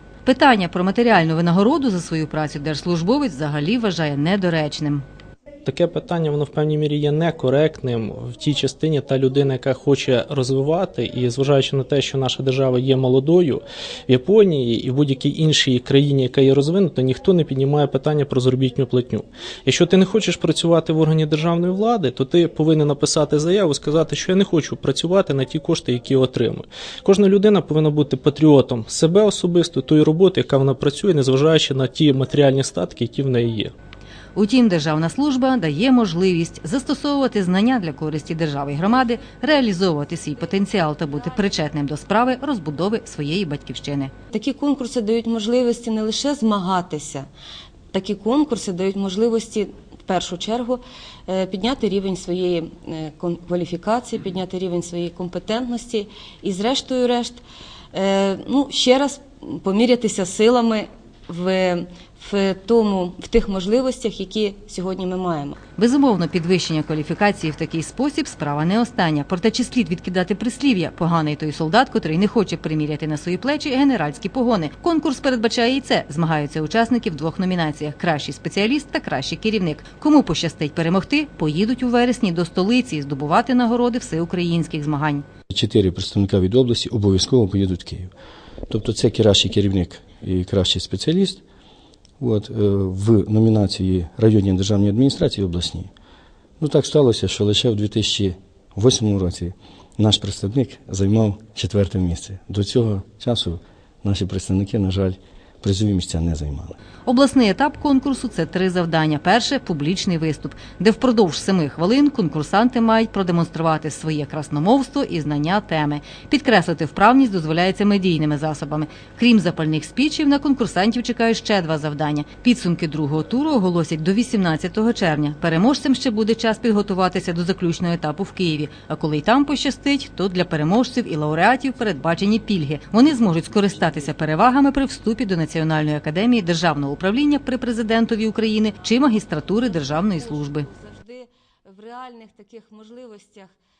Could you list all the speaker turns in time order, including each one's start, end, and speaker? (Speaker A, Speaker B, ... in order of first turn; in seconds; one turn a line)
Speaker A: 0.2-5.0
Speaker B: 5.7-33.7
Speaker A: 34.4-44.1
Speaker C: 44.3-47.3
Speaker C: 47.9-65.6
Speaker A: 65.8-85.2
Speaker D: 85.5-88.1
Speaker D: 88.7-91.4
Speaker D: 92.2-95.9
Speaker D: 96.6-106.8
Speaker A: 107.1-140.7
Speaker C: 139.6-143.5